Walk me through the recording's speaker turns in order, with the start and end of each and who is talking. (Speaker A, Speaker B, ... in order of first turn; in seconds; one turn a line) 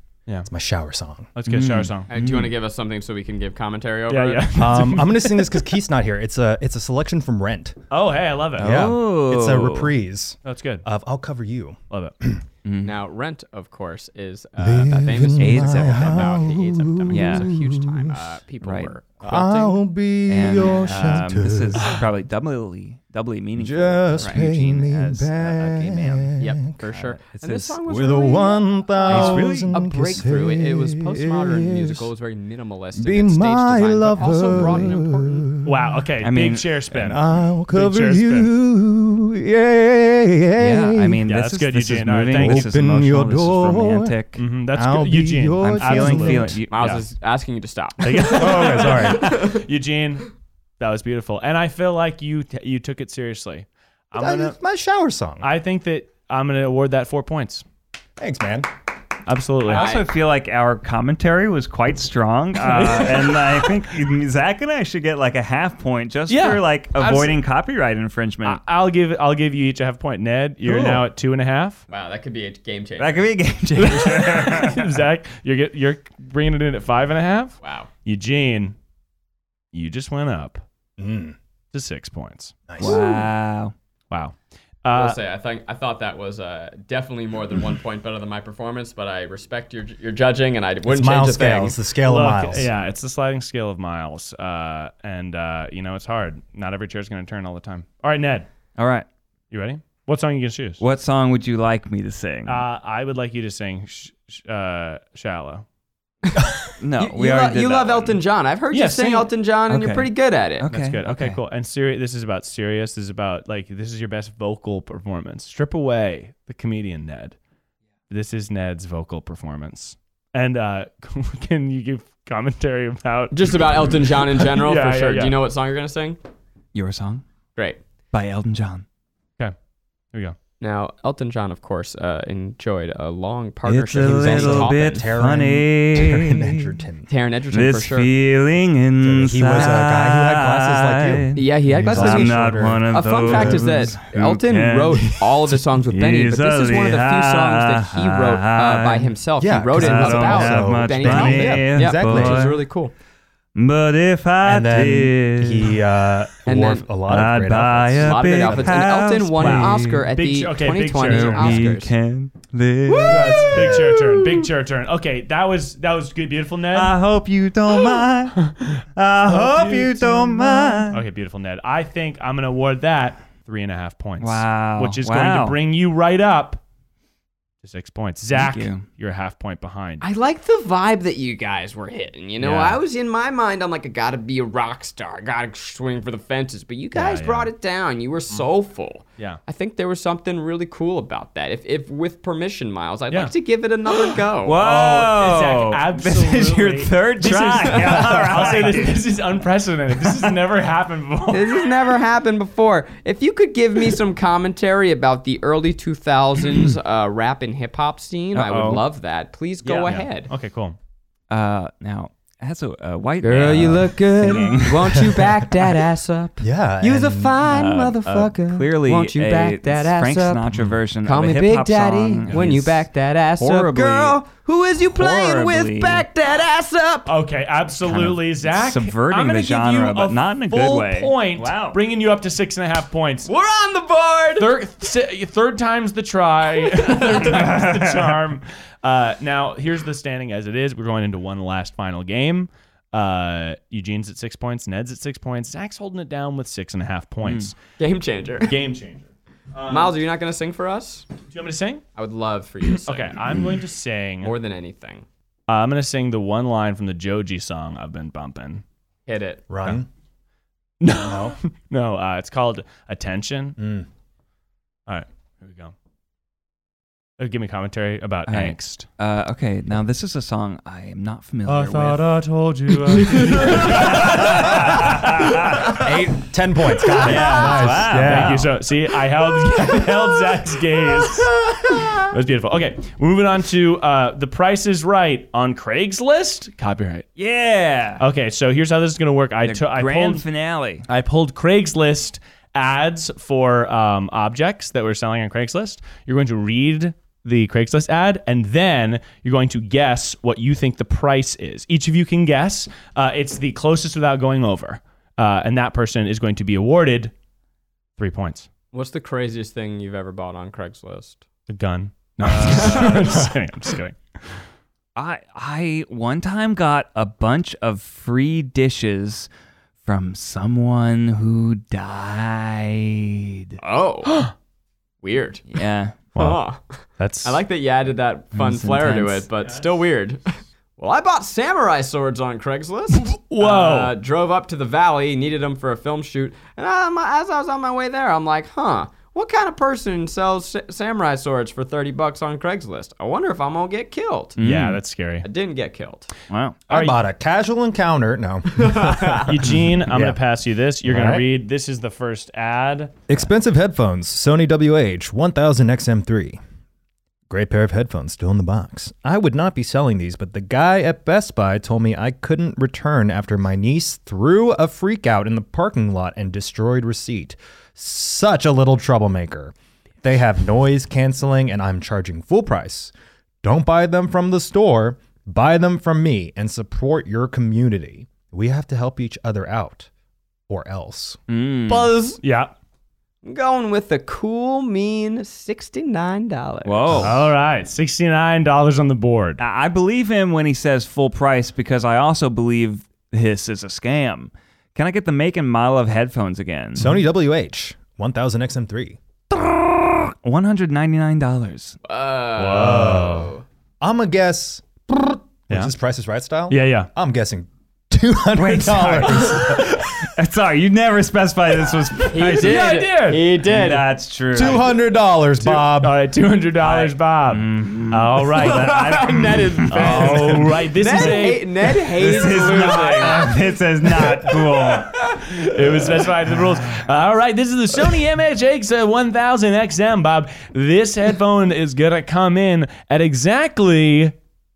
Speaker A: 0.5-1.3
Speaker B: 1.4-2.1
Speaker C: 1.5-2.5
Speaker D: 2.1-4.6
Speaker B: 4.1-5.7
Speaker A: 4.5-7.8
Speaker B: 7.9-8.8
Speaker C: 8.6-9.9
Speaker A: 8.6-12.4
Speaker B: 10.4-10.8
Speaker C: 12.7-12.9
Speaker D: 12.8-19.8
Speaker A: 14.6-18.2
Speaker C: 15.4-16.4
Speaker C: 17.1-17.5
Speaker C: 18.6-18.9
Speaker A: 19.2-22.0
Speaker C: 20.3-26.3
Speaker B: 20.9-21.2
Speaker A: 23.6-26.8
Speaker D: 26.4-35.5
Speaker C: 26.8-27.7
Speaker A: 27.4-32.1
Speaker C: 29.1-29.8
Speaker A: 33.0-35.9
Speaker B: 35.6-38.5
Speaker C: 36.2-36.7
Speaker A: 36.9-41.2
Speaker C: 40.6-44.4
Speaker B: 41.3-42.7
Speaker A: 42.3-44.2
Speaker B: 44.4-47.0
Speaker A: 44.7-46.6
Speaker C: 45.6-46.8
Speaker D: 46.7-49.6
Speaker B: 48.0-54.5
Speaker A: 48.3-49.4
Speaker A: 54.2-55.5
Speaker B: 55.4-57.6
Speaker A: 58.2-58.7
Speaker B: 59.3-59.9
Speaker C: 59.7-68.6
Speaker D: 59.7-60.1
Speaker B: 62.6-63.7
Speaker B: 66.3-67.4
Speaker B: 68.4-71.8
Speaker C: 70.7-71.0
Speaker D: 71.9-73.3
Speaker C: 73.0-75.0
Speaker B: 73.8-78.8
Speaker D: 77.6-77.9
Speaker B: 79.7-80.6
Speaker A: 81.0-81.4
Speaker B: 81.7-82.6
Speaker A: 82.7-83.0
Speaker C: 82.8-83.7
Speaker D: 82.8-83.2
Speaker B: 84.1-85.2
Speaker D: 84.9-91.8
Speaker A: 90.9-92.7
Speaker B: 92.0-98.5
Speaker C: 98.8-99.1
Speaker B: 99.5-100.8
Speaker C: 100.8-102.6
Speaker B: 102.5-105.7
Speaker D: 106.3-110.7
Speaker C: 106.8-108.2
Speaker B: 108.7-109.3
Speaker C: 109.7-110.1
Speaker C: 110.6-111.4
Speaker B: 110.7-117.4
Speaker B: 118.1-125.4
Speaker D: 123.3-126.2
Speaker C: 126.7-127.2
Speaker C: 128.1-128.8
Speaker D: 130.6-135.1
Speaker C: 133.7-136.7
Speaker A: 133.9-137.1
Speaker D: 137.1-138.1
Speaker C: 137.5-149.1
Speaker A: 139.0-143.8
Speaker D: 141.3-152.9
Speaker A: 149.4-152.6
Speaker C: 149.7-152.6
Speaker C: 153.6-155.8
Speaker A: 154.4-158.9
Speaker D: 156.5-156.9
Speaker C: 157.1-160.1
Speaker D: 158.0-161.9
Speaker B: 159.4-161.7
Speaker C: 161.0-163.9
Speaker D: 162.9-163.4
Speaker B: 163.1-166.9
Speaker A: 163.6-163.9
Speaker C: 166.7-171.0
Speaker B: 169.3-176.6
Speaker C: 174.2-175.6
Speaker B: 177.6-180.0
Speaker C: 178.3-178.8
Speaker D: 180.0-194.6
Speaker B: 182.4-182.8
Speaker B: 186.9-187.5
Speaker C: 194.4-199.0
Speaker B: 194.6-201.7
Speaker D: 201.3-210.3
Speaker C: 208.3-208.8
Speaker B: 209.6-210.8
Speaker C: 211.3-215.2
Speaker D: 213.2-220.5
Speaker A: 216.4-217.4
Speaker C: 217.4-224.2
Speaker B: 220.5-220.8
Speaker D: 221.0-227.1
Speaker C: 224.9-226.1
Speaker B: 227.1-233.3
Speaker C: 227.9-231.8
Speaker D: 233.3-234.5
Speaker B: 234.4-247.6
Speaker D: 236.9-237.2
Speaker C: 237.0-238.2
Speaker C: 247.2-247.5
Speaker D: 247.8-248.5
Speaker B: 248.4-250.0
Speaker D: 249.7-251.1
Speaker B: 251.3-251.8
Speaker D: 252.0-253.2
Speaker B: 252.8-254.3
Speaker D: 254.2-255.1
Speaker B: 255.5-258.6
Speaker D: 259.1-259.4
Speaker A: 259.5-259.9
Speaker B: 260.8-263.6
Speaker A: 260.9-261.4
Speaker A: 263.6-263.9
Speaker B: 264.9-265.7
Speaker B: 267.2-268.9
Speaker C: 268.3-272.1
Speaker B: 271.5-275.6
Speaker C: 273.1-275.9
Speaker A: 275.7-278.5
Speaker C: 276.9-278.5
Speaker B: 277.1-281.4
Speaker B: 282.0-287.1
Speaker C: 287.2-288.0
Speaker B: 288.0-290.2
Speaker C: 289.4-290.9
Speaker B: 290.9-307.1
Speaker B: 308.0-308.5
Speaker D: 308.7-311.2
Speaker B: 311.5-314.0
Speaker C: 312.3-313.0
Speaker D: 312.5-313.0
Speaker C: 315.0-319.3
Speaker C: 319.9-323.6
Speaker D: 323.6-324.3
Speaker D: 325.0-325.4
Speaker C: 325.5-326.0
Speaker D: 326.1-344.4
Speaker B: 327.0-327.4
Speaker C: 328.3-329.3
Speaker B: 333.0-333.9
Speaker C: 344.4-344.8
Speaker B: 344.4-345.3
Speaker D: 345.2-346.1
Speaker C: 346.3-346.6
Speaker A: 346.7-350.2
Speaker B: 346.7-347.0
Speaker D: 348.6-349.3
Speaker B: 349.2-353.2
Speaker A: 350.8-351.3
Speaker A: 353.1-356.4
Speaker A: 357.3-379.9
Speaker A: 380.5-381.2
Speaker C: 381.3-381.9
Speaker D: 381.7-382.2
Speaker B: 382.2-382.5
Speaker D: 383.2-387.0
Speaker C: 386.6-387.3
Speaker A: 386.9-387.1
Speaker B: 386.9-389.4
Speaker C: 389.4-396.9
Speaker A: 396.8-399.0
Speaker C: 399.3-401.8
Speaker D: 401.9-403.4
Speaker B: 402.4-403.3
Speaker A: 402.5-403.2
Speaker A: 403.8-409.8
Speaker B: 406.5-406.9
Speaker C: 408.3-412.8
Speaker D: 412.0-413.9
Speaker B: 412.3-413.2
Speaker C: 413.3-414.7
Speaker A: 414.3-416.0
Speaker B: 415.4-418.8
Speaker C: 416.6-421.2
Speaker D: 418.4-423.3
Speaker B: 419.7-421.5
Speaker C: 421.7-426.9
Speaker B: 422.3-423.1
Speaker B: 424.3-434.1